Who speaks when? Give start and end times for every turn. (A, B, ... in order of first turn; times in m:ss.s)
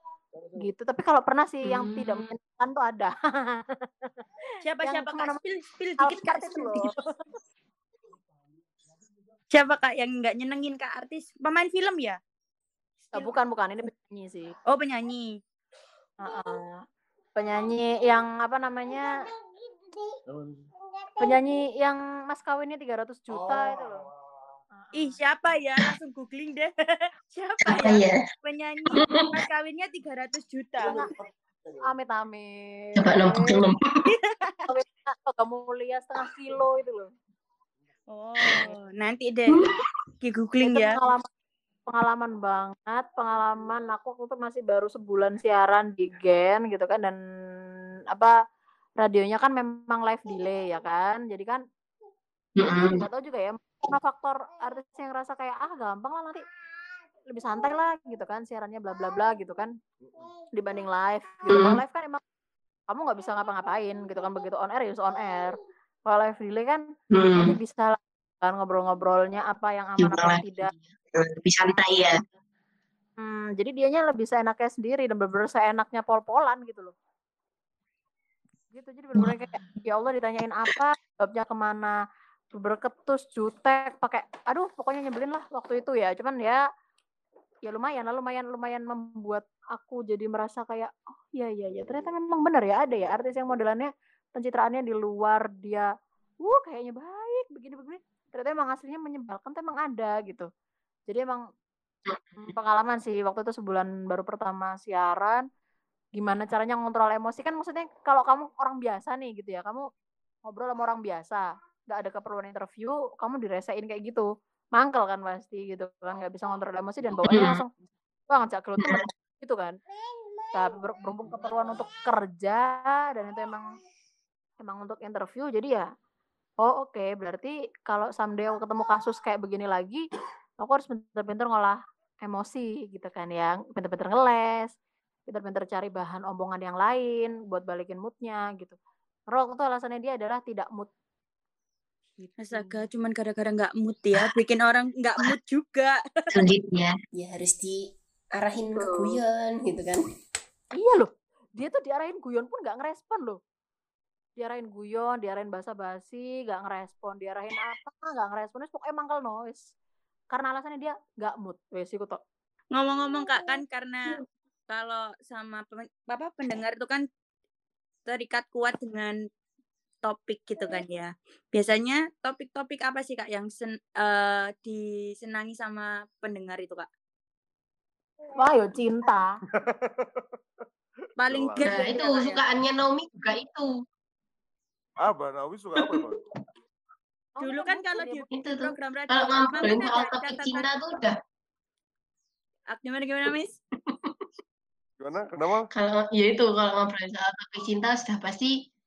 0:00.3-0:00.7 A
0:00.6-0:04.1 B
0:01.6-0:02.3 C
0:04.6-0:06.9 D
0:04.8-0:05.4 B
0:06.0-0:07.0 B
0:09.5-0:12.2 D
0:13.1-0:14.5 B
0:14.7-0:15.4 D
0:16.2-0:16.8 B
0:17.4-0:19.1 B
0:20.3-0:20.7 A
0:21.2-0:24.1 B
0:23.3-0:24.6 A
0:24.7-0:25.2 B
0:25.0-0:31.0 D
0:27.6-0:28.3 C
0:28.9-0:29.4 C
0:30.8-0:31.8 A
0:31.8-0:33.6 B
0:33.0-0:34.1 C
0:34.1-0:34.6 D
0:34.7-0:37.1 B
0:38.1-0:39.6 D
0:38.5-0:38.8 B
0:39.5-0:39.9 C
0:40.2-0:41.0 D
0:40.6-0:41.3 B
0:41.9-0:47.2 B
0:49.0-0:51.6 B
0:52.6-0:53.1 C
0:52.7-0:56.4 B
0:57.3-0:59.7 B
1:00.0-1:00.3 A
1:00.5-1:02.2 B
1:01.5-1:01.8 C
1:02.9-1:10.7 B
1:07.1-1:07.6 C
1:10.0-1:12.2 C
1:13.2-1:16.9 B
1:18.7-1:22.0 B
1:19.2-1:19.5 C
1:22.5-1:26.6 B
1:27.6-1:35.9 B
1:31.7-1:32.0 A
1:36.4-1:40.5 B
1:41.1-1:41.4 B
1:42.4-1:45.4 B
1:46.2-1:49.9 B
1:50.5-1:57.7 B
1:57.3-1:57.6 C
1:58.3-1:59.8 B
1:58.8-1:59.1 C
2:00.5-2:03.7 B
2:04.6-2:05.9 B
2:06.6-2:10.1 B
2:10.6-2:14.8 B
2:15.3-2:18.8 B
2:19.3-2:20.9 B
2:22.2-2:22.9 B
2:22.4-2:26.3 D
2:26.3-2:27.0 C
2:27.1-2:30.0 E
2:30.8-2:33.4 B
2:34.4-2:39.7 B
2:40.3-2:42.2 B
2:42.7-2:47.1 D
2:48.1-2:49.2 D
2:50.0-2:56.9 D
2:58.4-2:59.4 B
2:59.6-3:00.3 A
3:01.2-3:02.4 D
3:01.3-3:01.6 A
3:01.6-3:03.7 C
3:05.0-3:06.2 A
3:05.8-3:06.2 C
3:07.4-3:08.3 B
3:07.4-3:10.7 D
3:08.3-3:11.2 C
3:12.7-3:13.6 D
3:13.8-3:14.2 C
3:15.0-3:15.7 A
3:15.7-3:18.6 C